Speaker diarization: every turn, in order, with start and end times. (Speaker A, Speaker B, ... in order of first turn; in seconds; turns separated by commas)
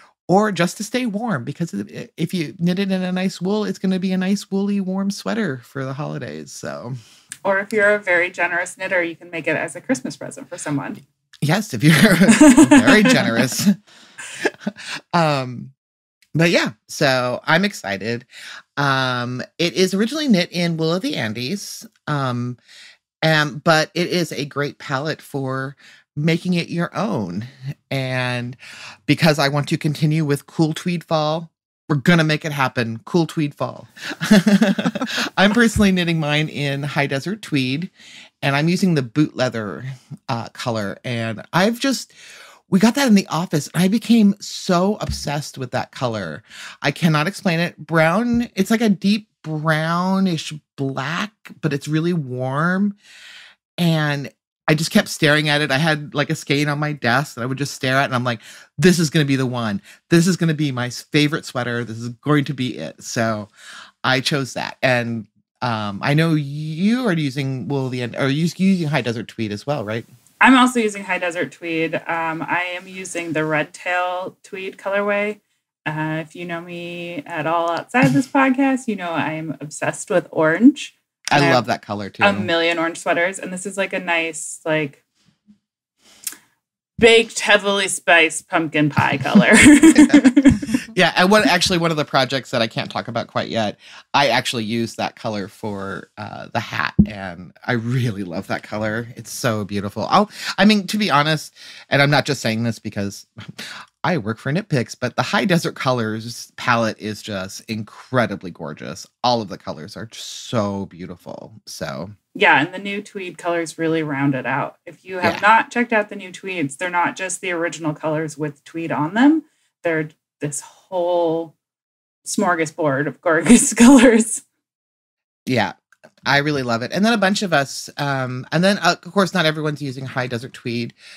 Speaker A: 0.3-7.0, Speaker B: 7.4-11.0, Speaker A: 11.4-13.8, Speaker B: 12.3-13.4, Speaker A: 14.4-15.7, Speaker A: 16.4-22.6, Speaker A: 23.2-37.9, Speaker A: 38.4-42.1, Speaker A: 42.7-53.0, Speaker A: 53.8-63.5, Speaker A: 64.0-70.1, Speaker B: 70.4-81.6, Speaker A: 81.3-82.5, Speaker B: 82.2-85.0, Speaker B: 87.0-90.8, Speaker A: 90.9-112.1, Speaker B: 112.3-121.5, Speaker B: 122.2-124.4, Speaker A: 125.5-125.8, Speaker A: 126.3-131.0